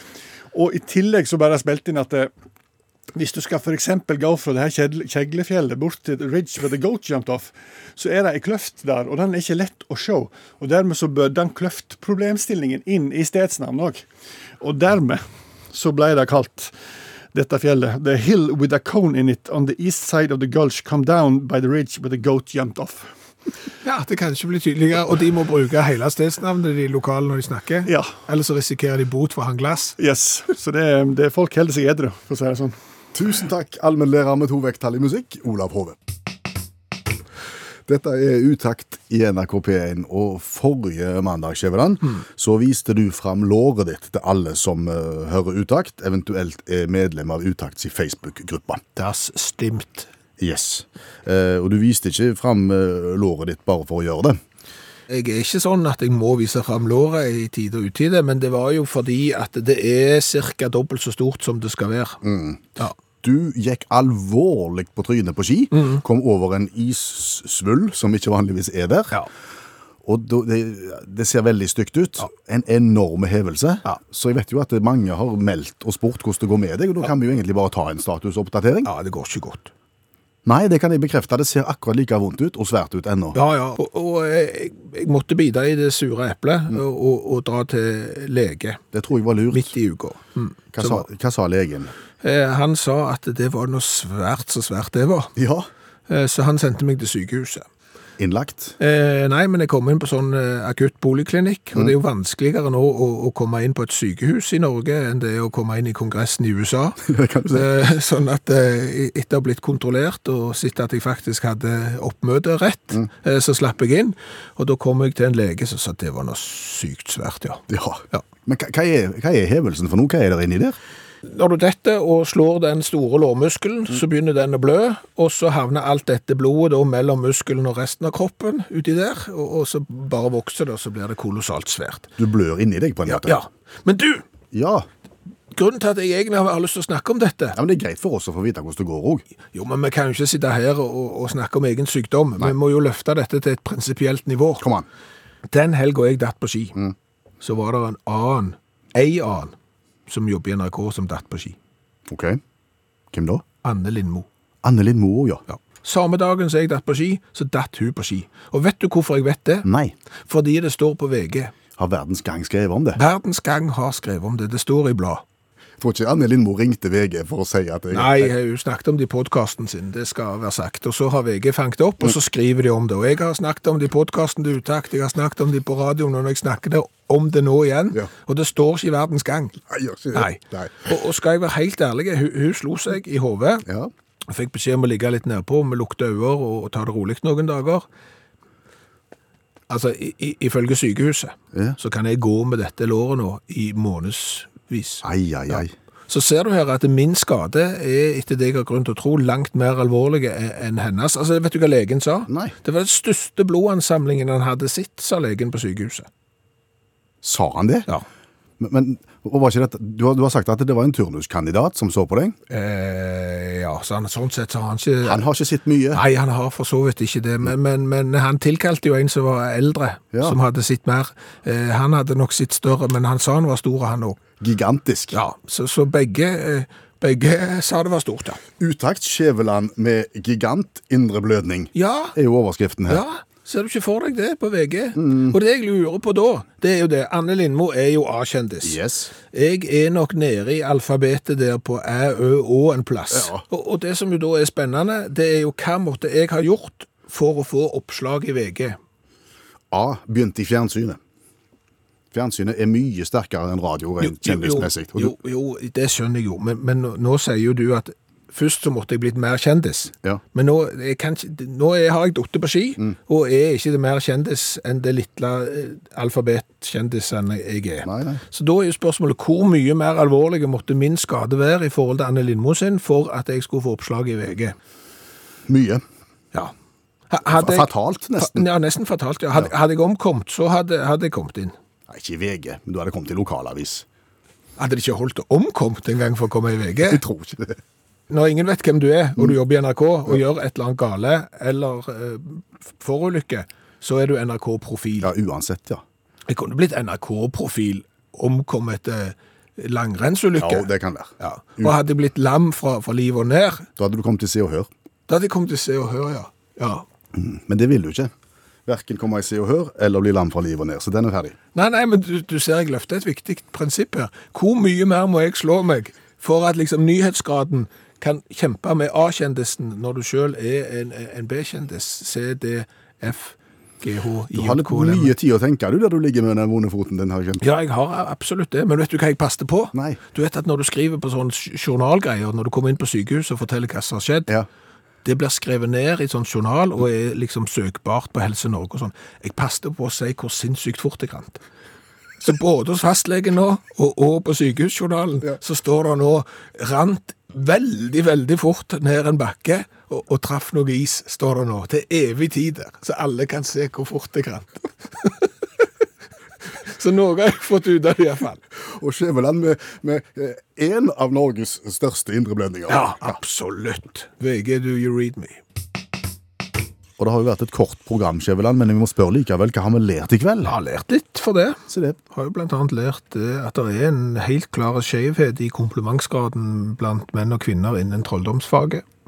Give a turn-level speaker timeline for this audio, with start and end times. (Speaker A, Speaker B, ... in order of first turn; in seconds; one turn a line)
Speaker A: 0.5-2.3
Speaker A: 3.1-14.0
Speaker A: 14.6-16.7
Speaker A: 17.3-23.1
Speaker B: 23.8-30.0
Speaker A: 27.9-28.1
Speaker A: 30.0-32.8
Speaker C: 33.1-36.0
Speaker C: 37.9-48.8
Speaker B: 49.0-50.1
Speaker C: 50.4-54.4
Speaker B: 55.1-62.2
Speaker C: 62.2-69.2
Speaker C: 70.0-78.9
Speaker B: 78.8-79.7
Speaker C: 80.5-83.4
Speaker B: 83.3-88.8
Speaker C: 88.9-89.7
Speaker B: 89.5-91.1
Speaker C: 90.7-91.9
Speaker B: 92.2-95.3
Speaker C: 95.4-95.7
Speaker B: 96.1-97.7
Speaker C: 98.2-98.8
Speaker B: 98.8-118.2
Speaker C: 107.1-107.7
Speaker C: 117.7-120.8
Speaker B: 121.2-132.1
Speaker C: 132.2-133.4
Speaker B: 133.1-134.2
Speaker C: 134.5-134.9
Speaker B: 135.5-137.6
Speaker C: 137.5-139.2
Speaker B: 139.5-144.7
Speaker C: 144.6-144.9
Speaker B: 145.5-146.8
Speaker B: 147.4-149.5
Speaker B: 150.1-151.6
Speaker C: 152.1-152.4
Speaker C: 153.1-153.4
Speaker B: 153.6-154.3
Speaker C: 154.6-155.4
Speaker B: 155.5-159.7
Speaker C: 159.6-159.9
Speaker B: 160.3-161.5
Speaker C: 161.8-163.0
Speaker B: 163.0-165.2
Speaker C: 165.8-168.3
Speaker B: 167.9-179.6
Speaker C: 179.7-180.8
Speaker B: 180.1-183.7
Speaker C: 183.7-183.9
Speaker B: 184.3-187.8
Speaker B: 189.7-206.1
Speaker C: 195.0-195.7
Speaker C: 202.3-202.5
Speaker C: 207.2-207.9
Speaker C: 208.6-212.4
Speaker B: 212.5-215.2
Speaker C: 215.0-216.0
Speaker B: 215.9-224.2
Speaker C: 220.1-220.4
Speaker C: 224.4-225.2
Speaker B: 225.1-228.4
Speaker C: 228.6-233.0
Speaker B: 231.8-232.2
Speaker B: 232.9-238.8
Speaker C: 235.0-235.4
Speaker C: 238.6-239.1
Speaker B: 239.3-248.8
Speaker C: 243.1-243.4
Speaker C: 249.7-251.0
Speaker C: 252.1-255.1
Speaker B: 254.0-274.6
Speaker C: 267.9-268.2
Speaker C: 275.5-275.8
Speaker B: 277.1-281.5
Speaker C: 277.2-278.5
Speaker C: 281.9-283.9
Speaker B: 284.6-287.0
Speaker C: 286.9-287.6
Speaker B: 288.1-295.1
Speaker C: 295.0-295.8
Speaker B: 296.3-300.7
Speaker C: 300.4-301.7
Speaker B: 301.2-303.7
Speaker C: 303.8-304.7
Speaker B: 305.1-306.9
Speaker C: 307.1-308.1
Speaker C: 308.7-311.4
Speaker B: 311.5-325.1
Speaker C: 324.3-327.4
Speaker B: 327.4-334.3
Speaker C: 329.7-330.0
Speaker B: 335.1-341.4
Speaker B: 342.2-355.3
Speaker B: 356.6-358.4
Speaker C: 358.7-363.1
Speaker B: 362.7-365.4
Speaker C: 367.0-370.6
Speaker B: 370.4-378.8
Speaker C: 371.7-372.0